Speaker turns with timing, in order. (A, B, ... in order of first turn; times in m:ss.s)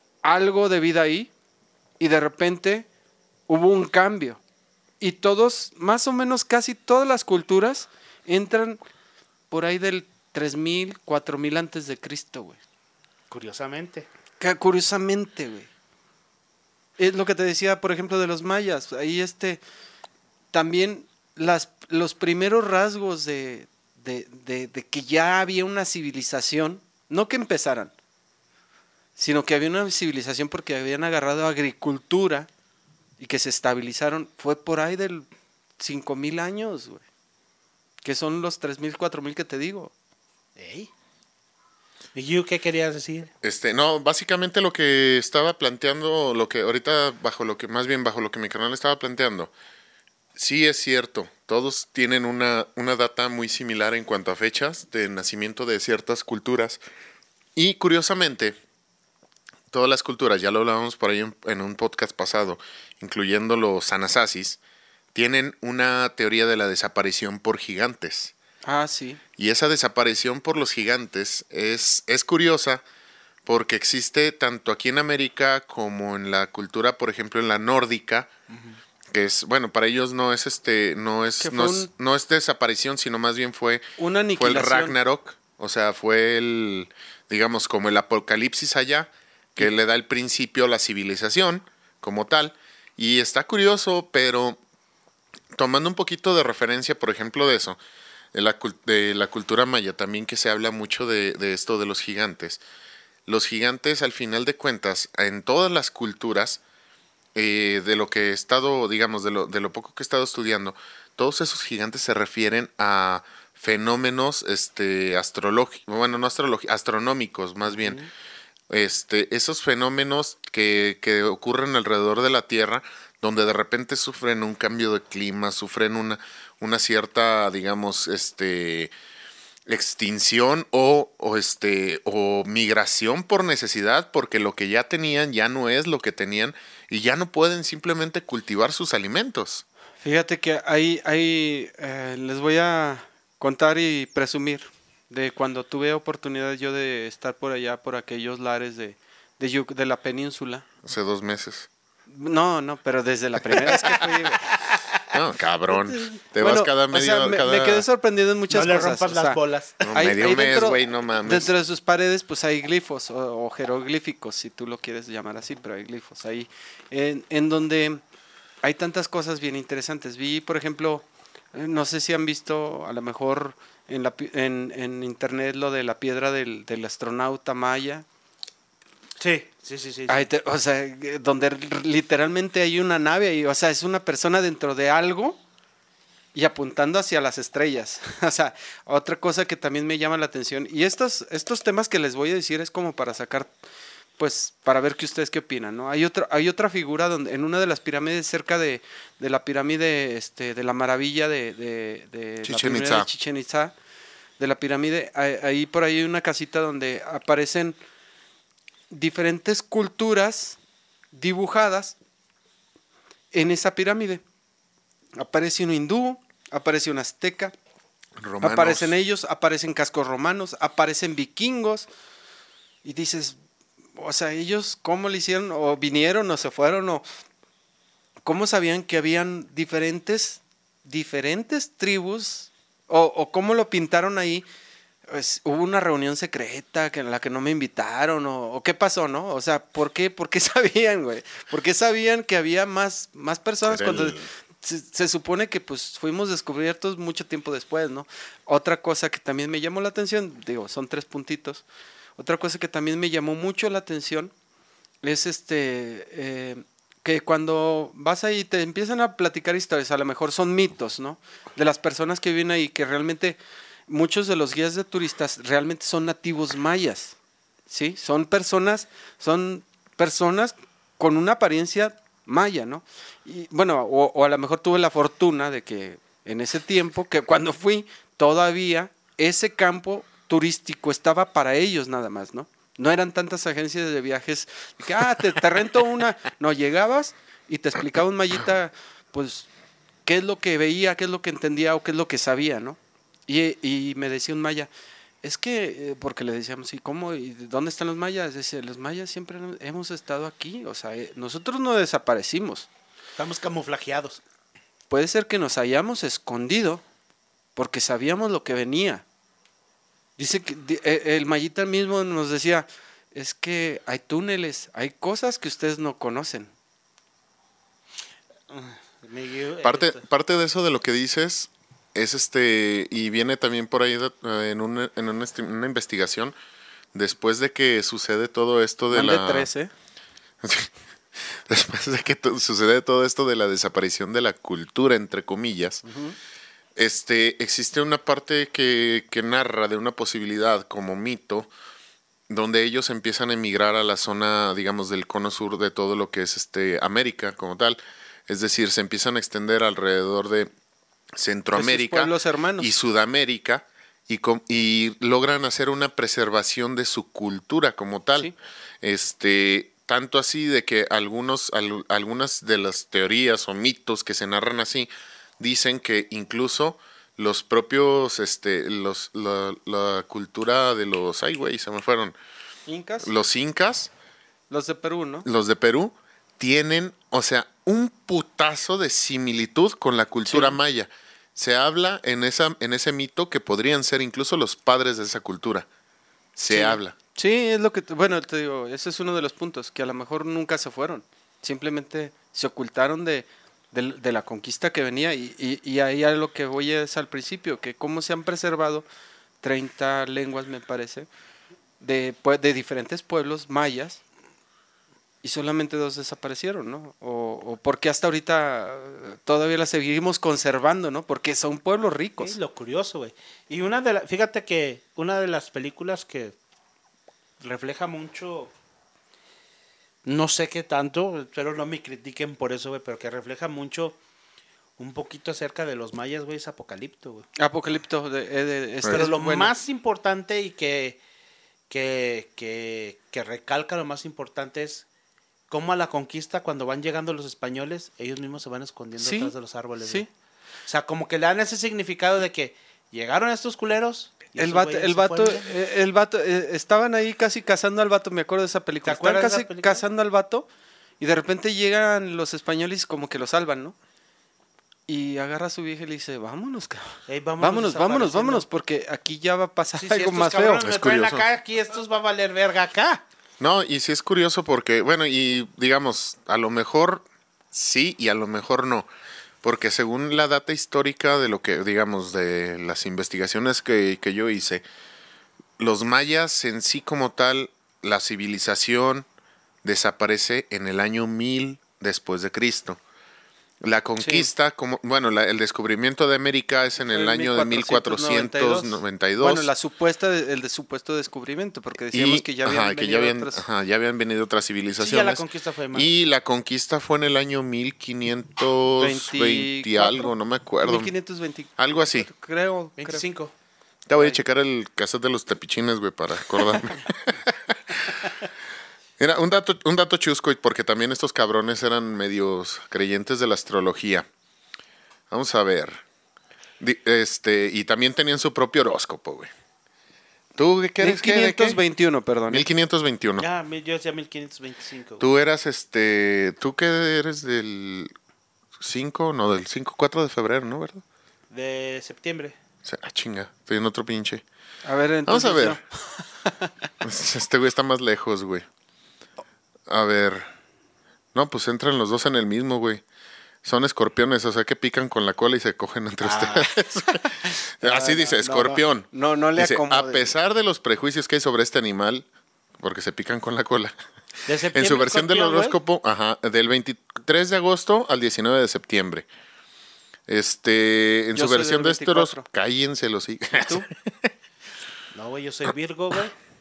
0:00.2-0:01.3 A
0:02.0-0:02.9 A
0:03.5-0:04.4 A
0:05.0-0:08.8 A
0:09.5-0:12.6 A
0:13.3-0:14.1 B
0:14.4-0:15.7 A
0:17.0-0:19.6 A
0:20.5-0:27.9 A
0:29.2-0:32.5 A
0:33.2-0:35.3 A
0:35.8-0:37.0 A
0:38.0-0:39.9 A
0:40.6-0:40.9 B
0:42.2-0:43.3 B
0:43.4-0:49.5 C
0:50.4-0:56.8 C
0:57.6-0:58.6 C
0:59.7-1:04.6 C
1:05.2-1:08.3 C
1:08.6-1:09.2 A
1:09.4-1:12.8 C
1:13.5-1:18.3 C
1:19.1-1:23.8 C
1:21.4-1:21.9 A
1:24.0-1:25.0 A
1:24.4-1:34.6 C
1:35.5-1:37.8 C
1:38.3-1:42.6 C
1:43.3-1:46.6 C
1:47.4-1:58.0 C
1:58.7-2:08.9 C
2:09.7-2:19.6 C
2:20.0-2:30.6 A
2:30.8-2:31.7 C
2:32.1-2:34.5 A
2:33.7-2:35.0 B
2:35.1-2:37.8 C
2:36.4-2:39.4 A
2:38.5-2:40.6 B
2:39.8-2:41.5 C
2:39.9-2:48.0 A
2:48.6-2:58.0 A
2:59.2-3:00.3 B
3:00.1-3:05.4 A
3:06.3-3:13.5 A
3:14.2-3:23.7 A
3:22.4-3:23.1 C
3:24.4-3:27.8 A
3:28.9-3:30.6 A
3:31.1-3:32.0 A
3:33.3-3:34.2 A
3:35.2-3:37.5 A
3:38.2-3:38.9 C
3:38.4-3:41.9 A
3:42.8-3:43.4 A
3:44.0-3:47.0 A
3:48.2-3:54.5 A
3:55.1-4:11.6 A
4:03.7-4:04.3 C
4:12.2-4:14.3 A
4:15.0-4:27.2 A
4:27.7-4:49.5 A
4:50.1-4:54.7 A
4:55.2-5:02.7 A
5:03.2-5:04.2 B
5:04.9-5:06.8 A
5:07.6-5:09.0 A
5:10.2-5:16.5 A
5:18.5-5:20.0 B
5:19.6-5:26.3 C
5:26.9-5:29.5 C
5:28.9-5:29.7 A
5:30.4-5:35.8 C
5:35.9-5:36.2 A
5:36.8-5:41.5 C
5:42.3-5:50.5 C
5:51.1-6:12.2 C
5:51.5-5:52.7 A
6:12.7-6:13.1 A
6:13.0-6:13.9 C
6:14.5-6:15.3 A
6:15.3-6:25.7 C
6:20.3-6:20.6 A
6:26.4-6:27.0 C
6:26.5-6:38.9 A
6:39.4-6:41.1 A
6:41.8-6:44.0 A
6:45.2-6:52.4 A
6:52.2-6:56.4 B
6:57.4-6:58.5 B
7:00.1-7:04.0 B
7:04.8-7:07.3 B
7:07.4-7:09.5 A
7:08.9-7:11.0 B
7:11.7-7:14.9 B
7:15.5-7:20.1 B
7:19.0-7:20.1 A
7:20.7-7:25.5 B
7:24.4-7:30.5 A
7:28.8-7:29.8 B
7:31.0-7:33.8 A
7:34.9-7:40.6 A
7:37.1-7:38.4 B
7:39.7-7:43.0 B
7:40.6-7:41.2 C
7:43.4-7:48.9 C
7:49.4-7:54.6 C
7:55.6-7:59.1 C
7:59.6-8:02.8 C
8:03.6-8:09.5 C
8:04.0-8:04.3 A
8:06.8-8:13.4 A
8:11.9-8:20.9 C
8:14.8-8:15.9 B
8:18.8-8:23.0 A
8:21.6-8:22.1 C
8:22.8-8:23.3 B
8:23.9-8:28.1 C
8:29.0-8:34.1 C
8:35.1-8:35.8 C
8:36.6-8:39.3 C
8:40.4-8:41.6 C
8:40.8-8:42.5 A
8:42.3-8:43.3 C
8:43.2-8:45.1 B
8:45.0-8:47.9 C
8:48.6-8:50.8 C
8:51.3-8:52.4 B
8:52.6-8:54.2 C
8:54.7-8:56.5 A
8:55.1-8:55.6 C
8:56.8-8:58.5 C
8:59.7-9:00.3 C
9:01.1-9:02.8 C
9:03.4-9:12.1 C
9:06.1-9:10.1 A
9:12.6-9:13.7 C
9:14.3-9:15.6 B
9:14.5-9:19.1 C
9:20.1-9:24.1 C
9:21.2-9:22.3 A
9:23.3-9:23.7 A
9:24.9-9:26.1 B